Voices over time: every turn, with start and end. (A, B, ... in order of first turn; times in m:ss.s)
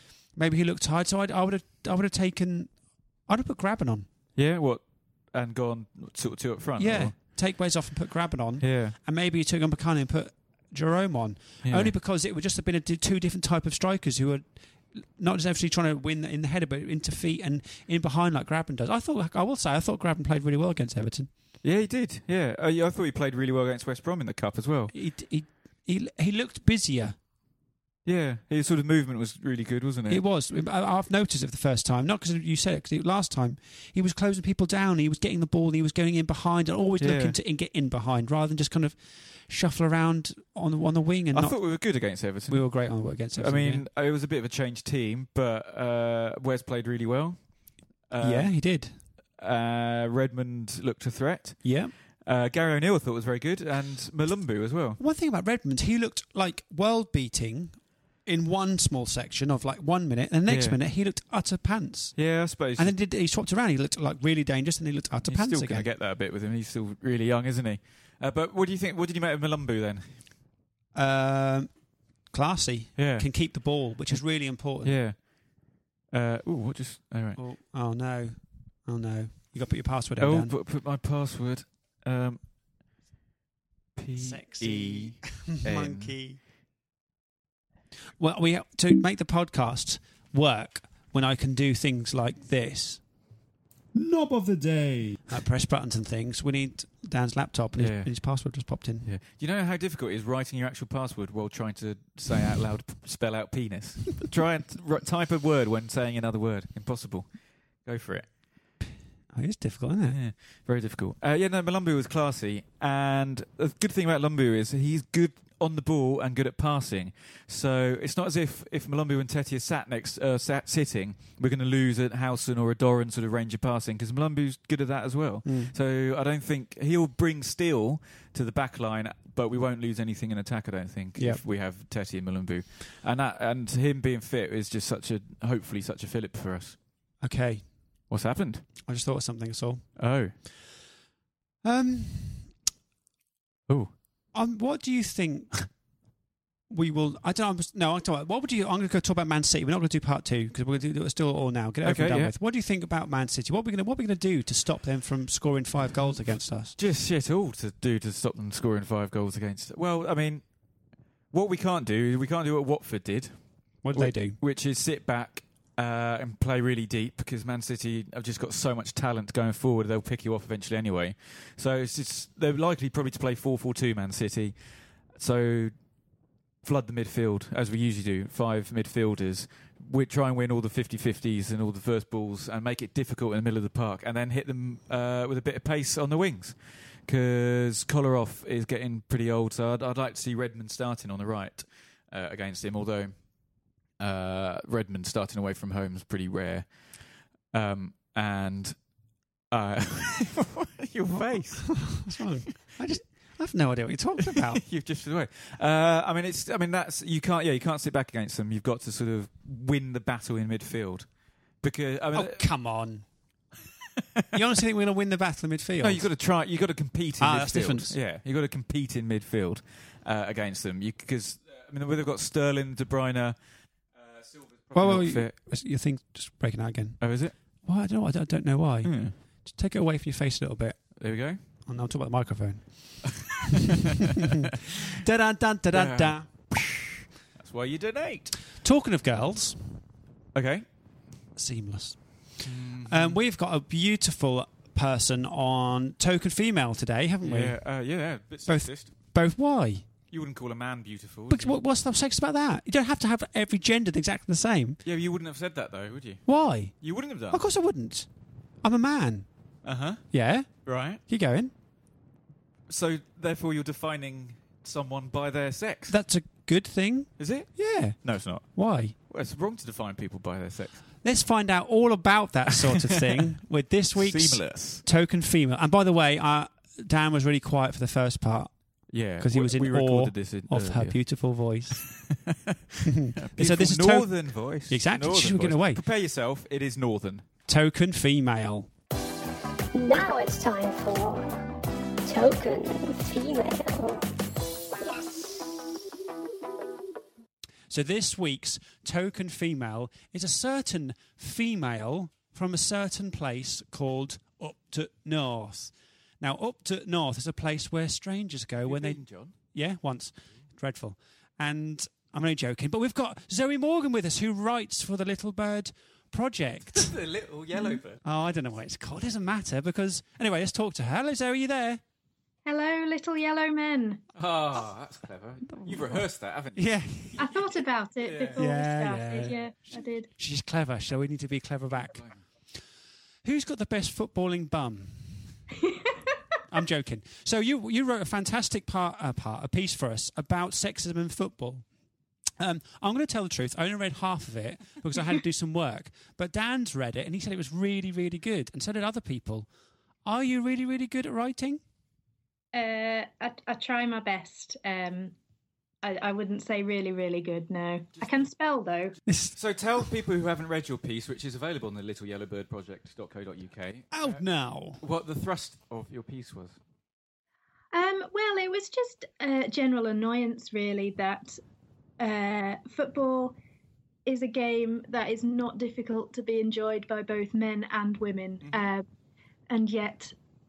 0:00.4-0:02.7 A
0:03.3-0:04.1 A
0:04.4-0:07.2 B
0:06.8-0:21.3 A
0:08.6-0:09.0 B
0:11.6-0:11.9 B
0:21.6-0:24.9 B
0:24.9-0:27.2 A
0:28.1-0:30.2 B
0:30.1-0:41.6 A
0:37.0-0:37.4 B
0:41.3-0:47.4 B
0:42.5-0:43.8 A
0:48.1-0:48.5 B
0:48.2-0:49.0 A
0:49.4-0:55.0 B
0:51.6-0:51.9 A
0:55.0-1:02.2 A
1:00.5-1:00.8 B
1:02.2-1:02.9 B
1:02.8-1:05.9 A
1:05.3-1:10.3 B
1:10.9-1:11.7 A
1:12.3-1:15.0 A
1:13.0-1:13.3 B
1:14.8-1:15.2 B
1:16.1-1:17.4 B
1:17.4-1:20.6 A
1:20.2-1:22.4 B
1:24.0-1:26.1 B
1:24.2-1:26.4 A
1:28.2-1:33.0 A
1:33.9-1:39.1 A
1:37.8-1:38.1 B
1:39.0-1:47.3 B
1:47.8-1:48.3 B
1:49.3-1:50.2 A
1:50.1-2:16.8 B
2:05.4-2:05.7 A
2:11.2-2:11.4 A
2:17.2-2:17.7 A
2:18.1-2:18.7 B
2:18.9-2:19.9 A
2:20.0-2:20.3 B
2:21.6-2:22.5 A
2:23.7-2:24.0 B
2:24.3-2:25.6 A
2:26.7-2:36.8 A
2:31.8-2:32.3 B
2:36.8-2:40.4 B
2:41.3-2:43.4 B
2:43.8-2:44.4 A
2:43.9-2:54.6 B
2:55.2-2:55.7 B
2:56.6-3:13.1 B
3:14.0-3:16.7 B
3:17.5-3:18.8 B
3:19.5-3:22.1 B
3:21.1-3:24.6 A
3:24.2-3:31.1 B
3:31.6-3:32.4 B
3:32.1-3:33.1 A
3:34.3-3:36.1 A
3:35.8-3:43.4 B
3:37.2-3:38.0 A
3:43.9-3:45.3 B
3:44.8-3:47.0 A
3:47.0-3:47.4 B
3:47.6-3:50.8 A
3:48.8-3:49.2 B
3:51.0-3:51.4 B
3:51.7-3:53.8 A
3:53.1-3:54.1 B
3:54.9-3:56.9 A
3:55.7-3:56.5 B
3:57.4-3:58.4 B
3:58.6-3:59.8 A
4:00.4-4:00.6 B
4:01.4-4:02.0 A
4:02.4-4:03.2 B
4:02.9-4:07.6 A
4:07.2-4:08.9 B
4:08.5-4:09.9 A
4:10.1-4:11.6 B
4:11.3-4:14.8 A
4:14.8-4:16.2 B
4:16.3-4:18.1 A
4:16.8-4:17.4 B
4:18.6-4:19.3 A
4:19.6-4:20.0 B
4:20.1-4:20.5 A
4:20.6-4:21.0 B
4:21.1-4:21.5 A
4:22.7-4:26.0 B
4:25.9-4:29.0 A
4:27.2-4:28.6 B
4:29.1-4:30.9 B
4:31.0-4:38.5 A
4:32.6-4:33.3 B
4:34.0-4:34.8 B
4:38.9-4:41.0 B
4:39.2-4:41.9 A
4:41.8-4:47.2 B
4:42.8-4:44.2 A
4:44.7-4:45.8 A
4:47.5-4:48.7 A
4:49.8-4:51.3 C
4:52.1-4:54.0 C
4:57.7-5:16.9 A
5:08.6-5:09.4 B
5:16.7-5:18.0 B
5:18.0-5:21.8 A
5:22.5-5:24.0 D
5:24.2-5:28.5 B
5:25.6-5:26.0 A
5:26.6-5:27.3 A
5:27.2-5:30.1 D
5:28.3-5:29.4 A
5:29.1-5:29.4 B
5:30.2-5:32.1 A
5:31.8-5:32.2 B
5:33.2-5:35.3 A
5:36.5-5:41.6 A
5:42.4-5:49.5 A
5:50.0-5:51.6 A
5:52.5-5:55.2 D
5:55.8-5:59.0 D
5:57.9-5:58.3 B
5:59.1-5:59.4 A
5:59.4-6:04.2 B
6:03.9-6:04.8 A
6:04.8-6:06.6 B
6:07.7-6:11.4 D
6:12.0-6:13.4 D
6:14.1-6:18.8 D
6:19.5-6:20.1 D